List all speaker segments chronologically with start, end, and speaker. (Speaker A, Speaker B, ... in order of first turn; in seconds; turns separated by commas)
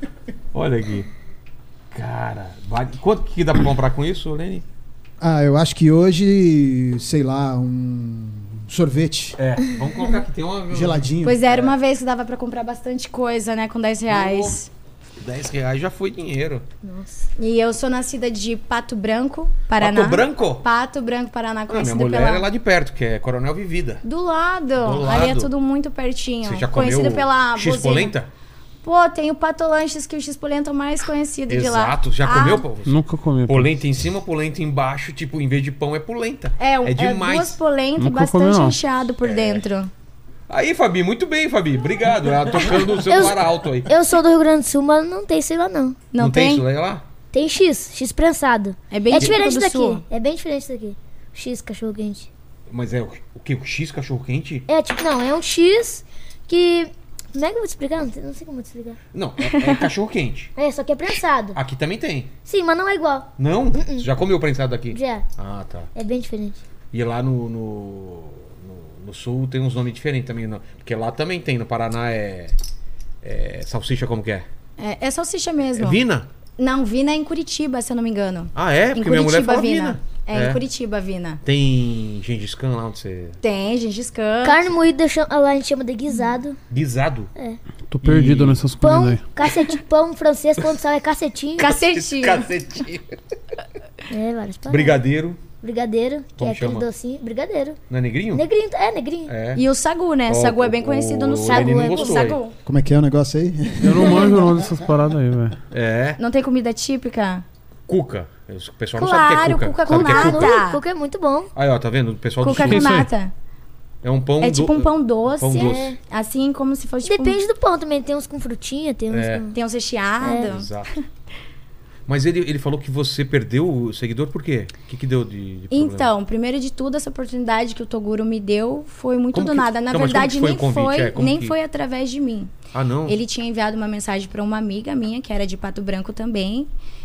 Speaker A: 0.5-1.1, Speaker A: 1.9-4.6, Speaker B: 5.2-9.3, Speaker A: 9.4-11.7, Speaker B: 10.7-11.4, Speaker C: 11.2-14.7, Speaker A: 14.1-14.6, Speaker A: 15.2-16.6, Speaker D: 16.8-17.3, Speaker C: 17.4-22.5, Speaker A: 19.8-20.7, Speaker A: 21.7-24.0, Speaker C: 24.0-28.1, Speaker A: 24.8-25.5, Speaker A: 26.4-28.3, Speaker C: 28.8-32.6, Speaker A: 31.5-37.6, Speaker E: 32.8-33.7, Speaker C: 36.6-39.9, Speaker E: 38.0-38.8, Speaker A: 39.2-39.6, Speaker A: 40.5-43.9, Speaker D: 43.1-46.0, Speaker C: 46.1-46.6, Speaker A: 46.2-47.0, Speaker D: 47.3-52.3, Speaker C: 48.9-50.0, Speaker A: 52.7-54.7, Speaker D: 54.7-59.0, Speaker A: 59.1-60.5, Speaker D: 60.5-61.6, Speaker A: 61.5-62.3, Speaker D: 62.4-64.0, Speaker A: 63.4-65.9, Speaker D: 64.9-65.2, Speaker D: 65.9-66.6, Speaker A: 66.9-72.5, Speaker A: 73.2-74.5, Speaker C: 74.8-76.0, Speaker A: 75.8-76.3, Speaker C: 76.6-81.4, Speaker A: 78.5-80.6, Speaker A: 81.4-83.4, Speaker C: 83.4-84.6, Speaker D: 84.4-86.6, Speaker A: 86.7-87.3, Speaker E: 87.9-89.2, Speaker A: 88.0-88.6, Speaker D: 88.8-91.7, Speaker C: 91.6-92.5, Speaker A: 91.8-93.1, Speaker D: 94.1-95.0, Speaker A: 94.7-95.4, Speaker D: 95.6-97.8, Speaker A: 96.4-96.9, Speaker A: 97.9-98.4, Speaker D: 98.3-99.4, Speaker A: 99.3-99.6, Speaker C: 99.5-102.5, Speaker A: 100.3-102.4, Speaker D: 101.4-102.3, Speaker B: 102.6-104.7, Speaker E: 103.8-105.6, Speaker A: 105.7-106.2, Speaker C: 106.2-107.4, Speaker A: 107.9-110.6, Speaker C: 109.0-110.8, Speaker D: 109.9-111.5, Speaker A: 111.5-113.0, Speaker C: 112.4-113.3, Speaker E: 112.5-113.1, Speaker A: 114.0-115.9, Speaker C: 114.4-117.4, Speaker D: 115.5-116.0, Speaker D: 117.0-119.6, Speaker A: 119.1-119.5, Speaker C: 119.5-120.7, Speaker D: 120.2-120.5, Speaker A: 120.4-120.9, Speaker A: 122.1-126.1, Speaker C: 125.7-132.5, Speaker A: 129.3-131.6, Speaker A: 132.7-133.2, Speaker C: 133.1-136.7